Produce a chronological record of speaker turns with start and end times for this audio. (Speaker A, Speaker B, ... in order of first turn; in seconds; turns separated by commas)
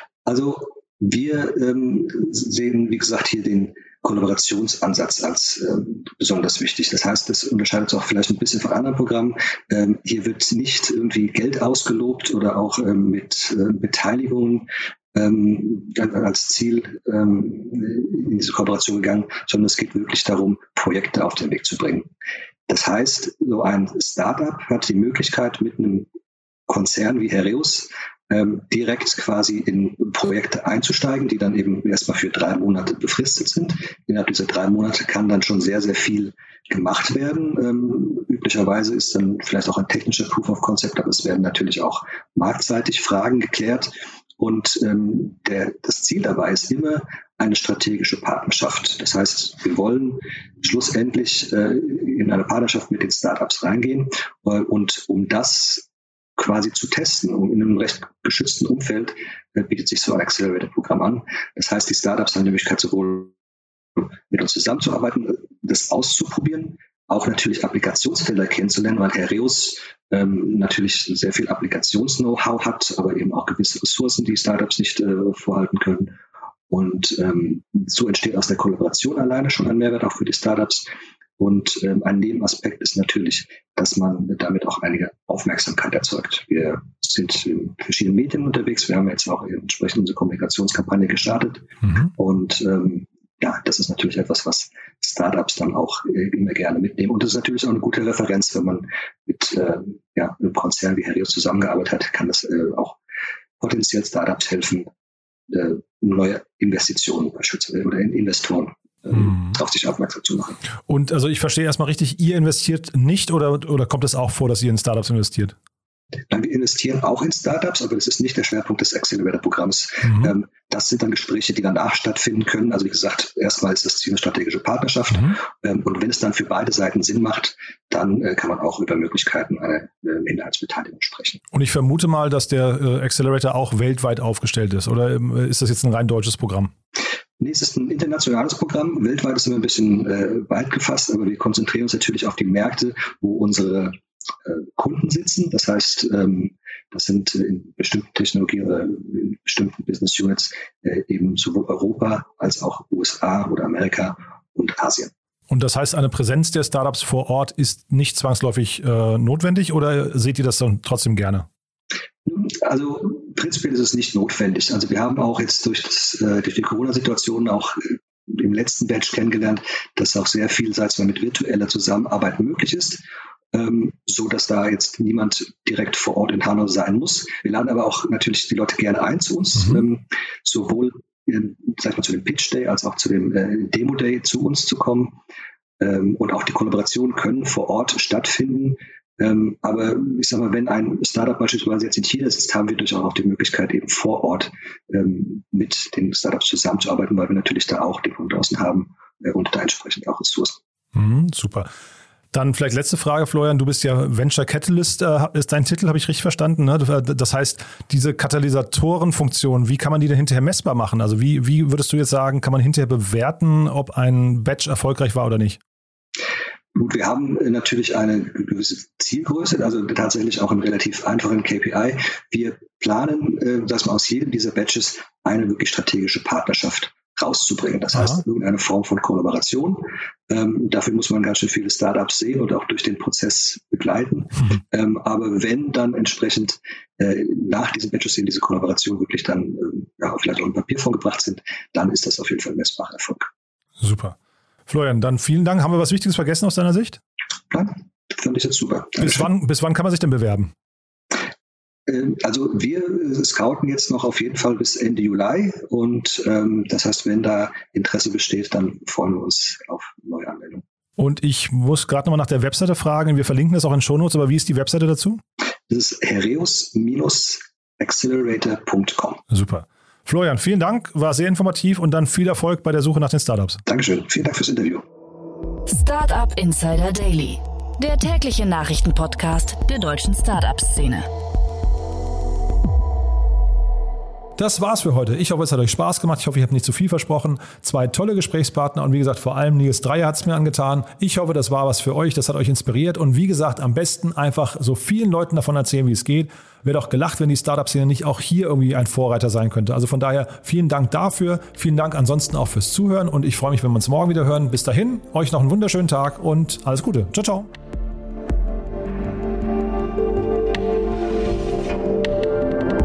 Speaker A: 0.2-22.1, Speaker A: 22.7-26.1, Speaker A: 26.7-55.9, Speaker A: 56.4-63.3, Speaker A: 64.0-76.2, Speaker A: 76.7-103.0, Speaker A: 103.6-104.9, Speaker A: 105.5-110.6, Speaker B: 109.2-109.5, Speaker B: 110.9-115.6, Speaker A: 116.3-131.4, Speaker B: 131.5-136.7, Speaker A: 137.4-155.1, Speaker B: 155.5-161.5, Speaker A: 162.2-185.2, Speaker A: 185.8-200.6, Speaker B: 200.9-201.7, Speaker B: 202.3-215.6, Speaker A: 216.8-243.3, Speaker B: 227.9-228.2, Speaker B: 243.8-244.2, Speaker B: 244.7-247.0, Speaker A: 247.5-249.3, Speaker B: 249.0-250.5, Speaker A: 251.9-260.6, Speaker B: 261.0-265.2, Speaker A: 265.7-269.2, Speaker B: 269.3-273.6, Speaker A: 273.6-274.9, Speaker C: 275.7-281.1, Speaker B: 284.4-307.5